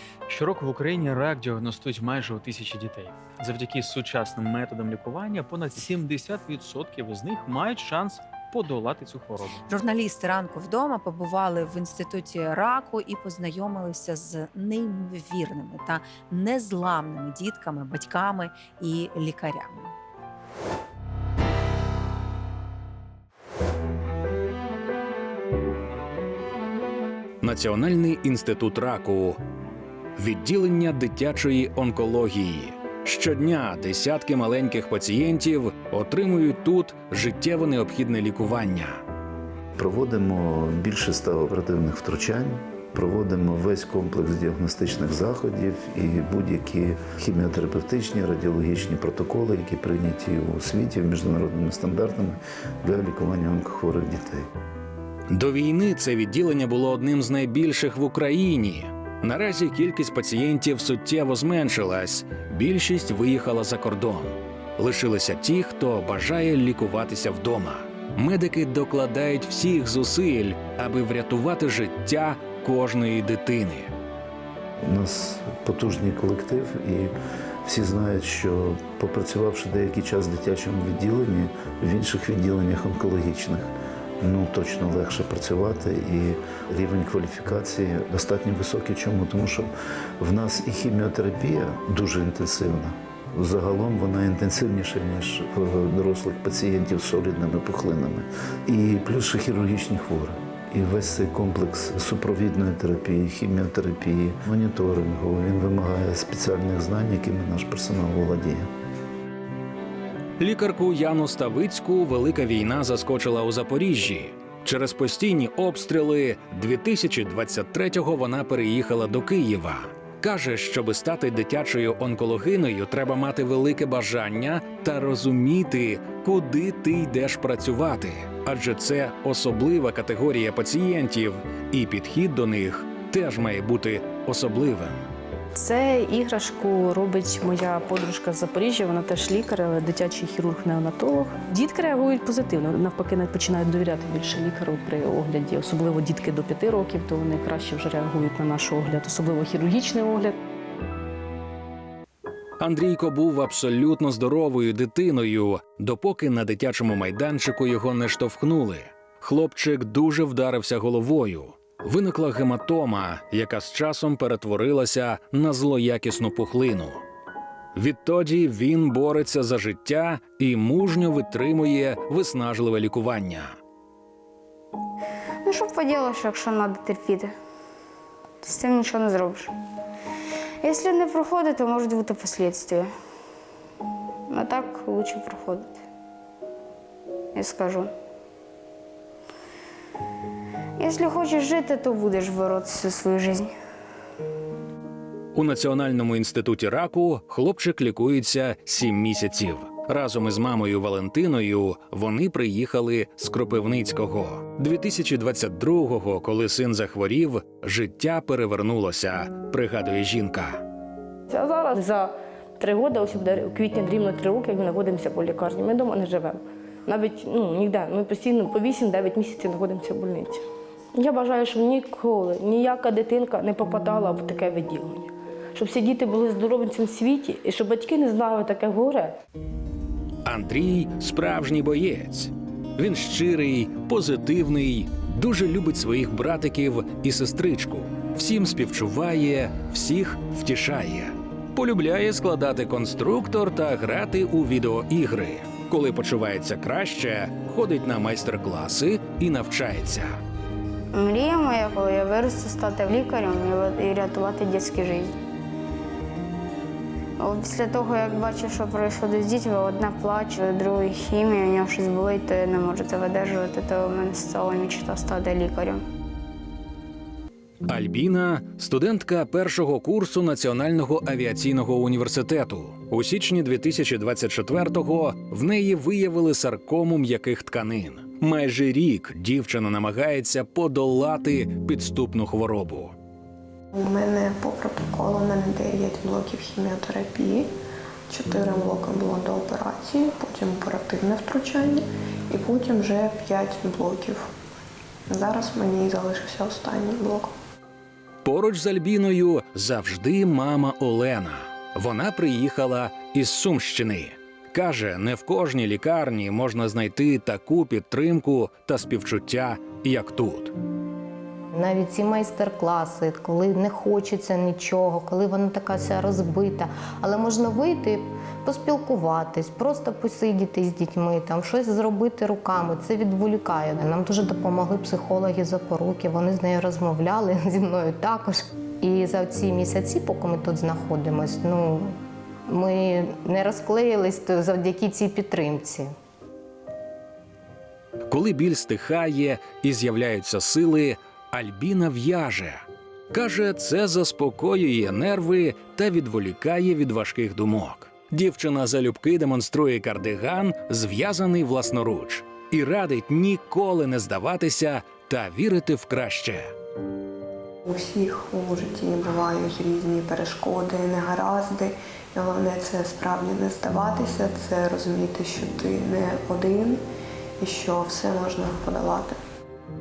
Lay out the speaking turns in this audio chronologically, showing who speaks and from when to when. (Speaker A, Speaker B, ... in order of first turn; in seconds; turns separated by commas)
Speaker A: 0.3-9.6, Speaker B: 9.7-19.9, Speaker C: 27.4-29.4, Speaker C: 30.1-39.0, Speaker D: 39.8-54.5, Speaker C: 55.3-73.9, Speaker D: 74.9-77.1, Speaker D: 77.6-108.7, Speaker C: 110.4-135.1, Speaker E: 135.6-150.3, Speaker C: 152.6-167.0, Speaker C: 167.7-173.5, Speaker F: 175.4-177.3, Speaker F: 178.4-179.5, Speaker F: 180.6-182.9, Speaker F: 184.3-185.8, Speaker F: 187.3-187.9, Speaker F: 190.8-193.5, Speaker C: 195.3-210.6, Speaker G: 211.3-220.4, Speaker G: 220.9-229.1, Speaker C: 230.2-250.1, Speaker F: 250.9-255.1, Speaker F: 257.2-265.8, Speaker C: 267.7-282.9, Speaker H: 283.7-287.5, Speaker H: 288.1-294.4, Speaker H: 295.1-297.3, Speaker C: 298.2-310.5, Speaker I: 311.5-331.9, Speaker I: 332.5-335.9, Speaker C: 338.1-356.5, Speaker H: 357.6-366.8, Speaker H: 367.4-369.2